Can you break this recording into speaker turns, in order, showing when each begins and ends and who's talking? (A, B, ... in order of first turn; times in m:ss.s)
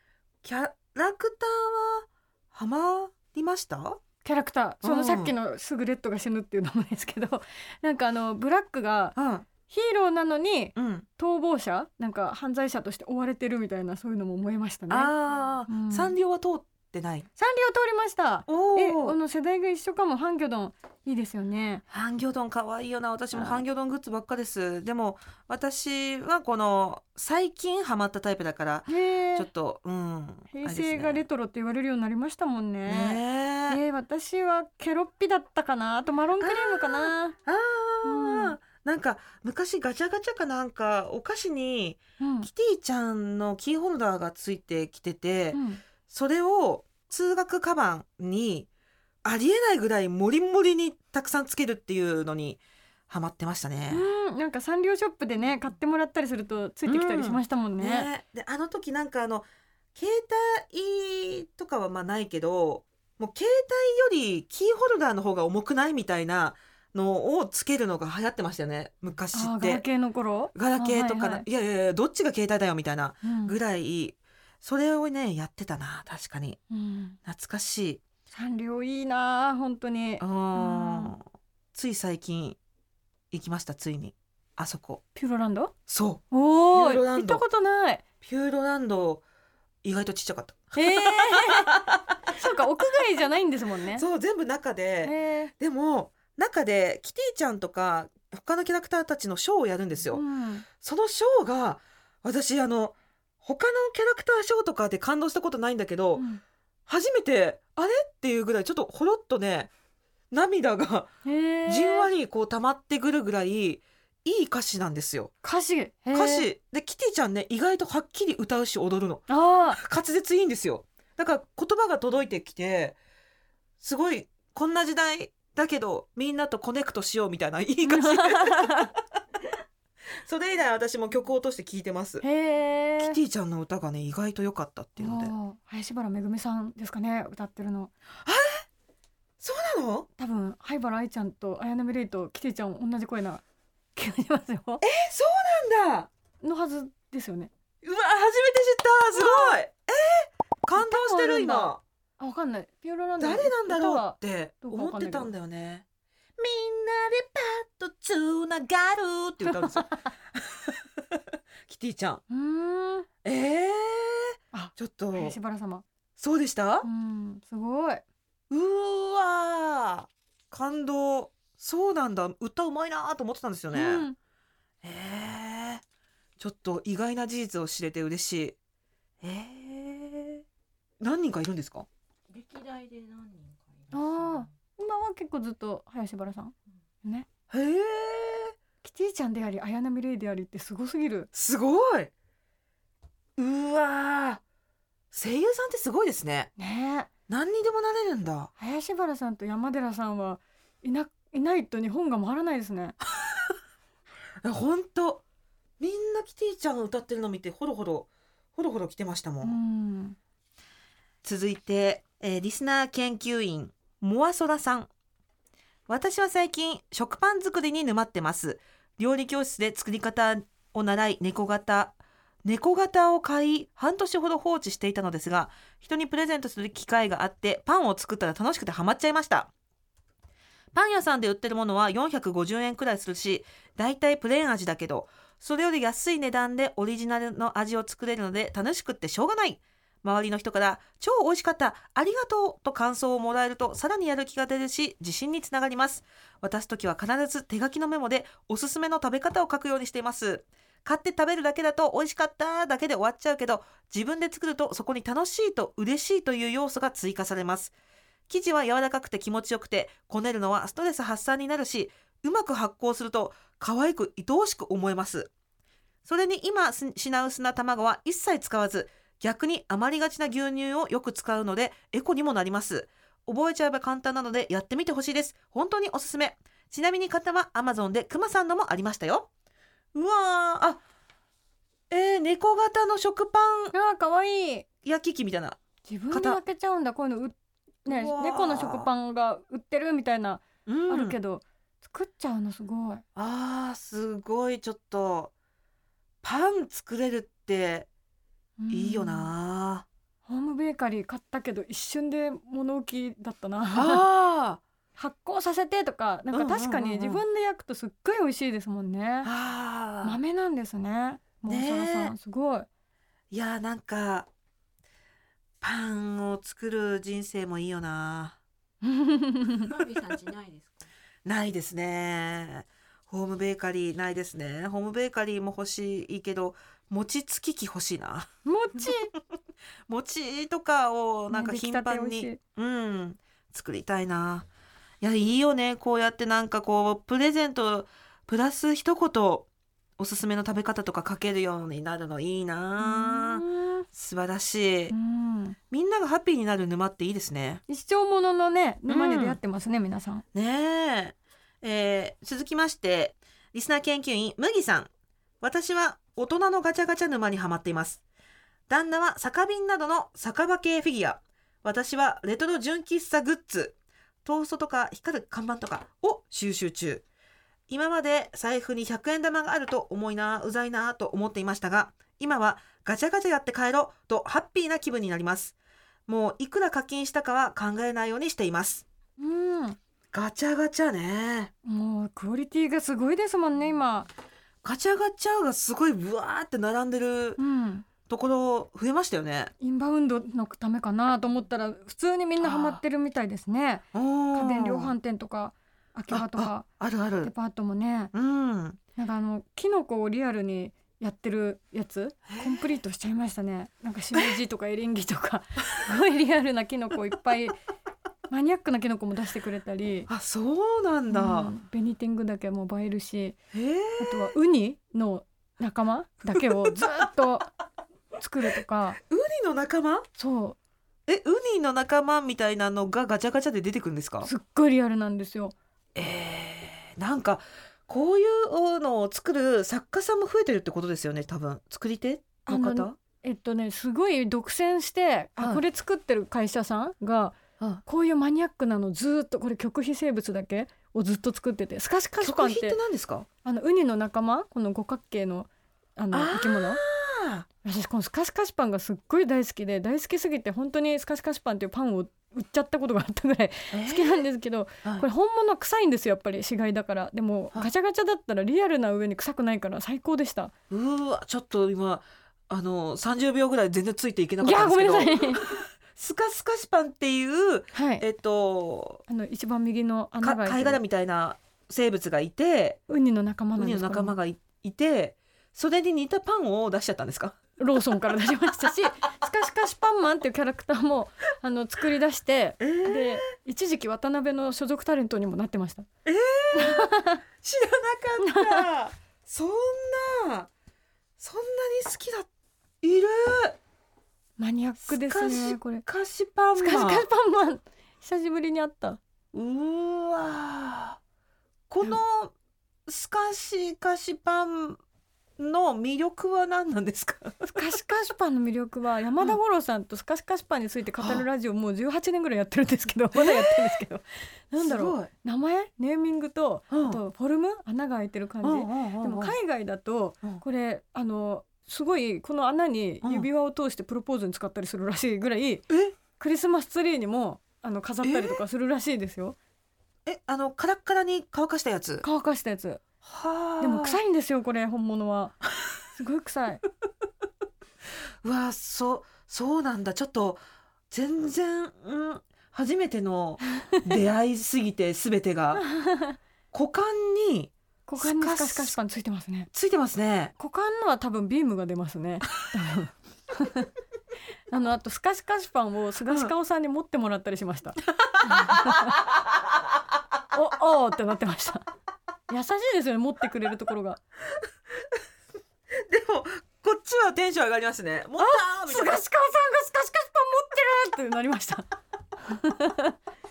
0:00.4-0:04.0 A
0:04.2-0:15.1 B
0:04.8-0:05.3 A
0:09.2-0:09.5 A
0:10.8-0:11.0 A
0:14.9-0:17.3 A
0:15.7-0:16.1 B
0:17.4-0:21.8 B
0:18.5-0:19.2 A
0:21.9-0:31.2 A
0:23.3-0:23.6 B
0:28.9-0:29.5 B
0:30.5-0:37.3 B
0:32.8-0:33.8 A
0:36.4-0:48.7 A
0:38.0-0:38.5 B
0:42.2-0:42.5 B
0:45.5-0:45.8 B
0:49.2-0:54.1 A
0:53.9-0:58.1 B
0:56.8-0:59.4 A
1:00.0-1:09.8 A
1:09.3-1:11.4 B
1:10.5-1:16.6 A
1:13.2-1:13.6 B
1:16.7-1:17.2 B
1:17.2-1:18.0 A
1:18.3-1:21.1 B
1:20.2-1:22.6 A
1:23.3-1:25.0 A
1:25.1-1:25.7 B
1:25.9-1:27.4 A
1:26.3-1:28.0 B
1:28.2-1:29.2 A
1:29.8-1:32.4 A
1:30.8-1:31.7 B
1:32.3-1:34.0 B
1:33.9-1:40.2 A
1:35.0-1:35.5 B
1:40.1-1:40.6 B
1:40.8-1:46.2 A
1:46.2-1:46.4 B
1:46.9-1:49.7 A
1:50.3-1:51.1 A
1:51.2-1:52.1 B
1:51.6-1:55.3 A
1:55.4-1:56.5 B
1:56.1-2:03.0 A
1:59.3-1:59.8 B
2:03.8-2:08.9 A
2:07.8-2:08.9 B
2:10.2-2:12.2 A
2:12.2-2:13.2 B
2:13.0-2:15.3 A
2:15.0-2:17.9 B
2:18.2-2:18.6 A
2:19.4-2:20.1 A
2:20.2-2:23.4 B
2:24.0-2:24.8 B
2:24.8-2:26.1 A
2:26.4-2:27.5 B
2:27.8-2:31.8 A
2:29.1-2:29.6 B
2:30.8-2:35.3 B
2:33.2-2:35.8 A
2:36.4-2:42.2 A
2:39.5-2:39.9 B
2:42.3-2:43.1 B
2:43.2-2:45.4 A
2:44.5-2:45.8 B
2:46.2-2:46.9 A
2:46.8-2:48.0 B
2:48.5-2:54.0 A
2:53.7-2:54.2 B
2:54.8-2:55.8 A
2:56.4-2:58.6 A
2:59.2-3:00.4 A
3:01.0-3:01.9 A
3:02.3-3:04.5 C
3:03.9-3:07.3 B
3:07.5-3:08.5 A
3:08.8-3:11.3 B
3:11.3-3:12.1 A
3:13.4-3:14.4 A
3:15.1-3:16.5 A
3:16.6-3:17.1 B
3:17.3-3:18.5 A
3:18.6-3:23.0 B
3:23.2-3:23.5 A
3:24.4-3:25.2 A
3:25.8-3:29.6 A
3:29.4-3:30.2 B
3:31.2-3:34.9 A
3:35.9-3:49.5 A
3:50.7-4:17.7 A
4:18.3-4:25.3 A
4:26.0-4:39.3 A
4:39.9-4:40.8 A
4:41.9-4:43.7 A
4:43.7-4:44.6 B
4:44.8-4:45.6 A
4:45.9-4:53.0 B
4:46.1-4:46.4 A
4:47.8-4:48.9 A
4:50.6-4:51.2 A
4:53.2-4:55.3 A
4:56.2-4:57.9 A
4:58.6-4:59.3 B
4:58.7-4:59.9 A
5:00.3-5:04.0 B
5:03.7-5:04.6 A
5:05.0-5:09.3 B
5:06.3-5:07.2 A
5:09.2-5:10.2 A
5:10.0-5:12.7 B
5:11.4-5:12.1 A
5:13.3-5:14.3 A
5:15.6-5:18.4 A
5:18.8-5:19.6 B
5:19.6-5:20.9 C
5:21.2-5:28.3 A
5:28.4-5:29.1 B
5:29.9-5:34.5 A
5:31.3-5:32.4 B
5:35.0-5:39.5 A
5:40.0-5:44.9 A
5:42.8-5:43.8 B
5:44.9-5:45.6 B
5:45.7-5:47.6 A
5:47.7-5:50.2 B
5:48.9-5:49.4 A
5:50.3-5:54.9 A
5:55.4-5:58.0 A
5:58.7-6:07.0 A
6:07.7-6:15.5 A
6:16.1-6:18.8 A
6:19.2-6:19.8 B
6:20.1-6:21.5 A
6:21.6-6:24.1 B
6:24.6-6:27.4 A
6:27.4-6:27.8 B
6:28.0-6:29.5 A
6:29.6-6:36.6 B
6:32.4-6:32.8 A
6:33.9-6:34.9 A
6:36.1-6:37.3 A
6:37.2-6:38.1 B
6:38.1-6:38.8 A
6:39.0-6:47.5 B
6:42.3-6:42.7 A
6:48.3-6:50.1 B
6:50.1-6:51.5 A
6:51.1-6:53.4 B
6:53.5-6:54.3 A
6:54.0-6:57.5 B
6:56.3-6:57.0 A
6:58.2-6:59.0 B
6:59.1-7:00.0 A
7:00.2-7:00.6 B
7:01.1-7:04.3 A
7:04.2-7:05.5 B
7:05.9-7:13.0 A
7:12.5-7:22.8 B
7:15.4-7:15.6 A
7:22.2-7:23.3 A
7:23.4-7:26.8 B
7:26.1-7:27.5 A
7:27.6-7:40.5 B
7:33.7-7:34.2 A
7:40.7-7:49.0 A
7:44.4-7:45.4 B
7:47.7-7:48.0 B
7:49.1-7:50.8 B
7:50.2-7:52.8 A
7:52.9-7:54.1 B
7:53.6-7:57.4 A
7:57.6-8:05.9 B
8:02.6-8:03.2 A
8:06.0-8:10.5 A
8:06.5-8:07.2 B
8:08.2-8:08.7 B
8:11.2-8:12.3 A
8:12.8-8:13.6 A
8:14.4-8:15.8 B
8:14.8-8:17.0 A
8:16.6-8:19.0 B
8:19.3-8:21.0 A
8:21.7-8:22.3 A
8:22.9-8:24.8 A
8:25.4-8:27.4 A
8:27.4-8:45.6 B
8:31.0-8:31.2 A
8:33.1-8:33.7 A
8:34.6-8:35.1 A
8:36.7-8:37.0 A
8:38.4-8:39.3 A
8:45.7-8:46.0 A
8:46.2-8:49.4 B
8:48.0-8:48.4 A
8:50.0-8:52.0 A
8:52.0-8:52.8 B
8:53.0-8:54.0 A
8:53.6-8:55.4 B
8:55.9-8:56.6 B
8:58.2-9:05.6 A
9:05.5-9:06.2 B
9:06.5-9:08.8 A
9:07.9-9:09.5 B
9:09.5-9:10.3 A
9:10.4-9:13.7 B
9:14.5-9:19.0 B
9:18.1-9:18.8 A
9:20.3-9:21.7 B
9:22.3-9:24.0 B
9:25.7-9:29.0 A
9:28.2-9:31.6 B
9:32.3-9:32.9 B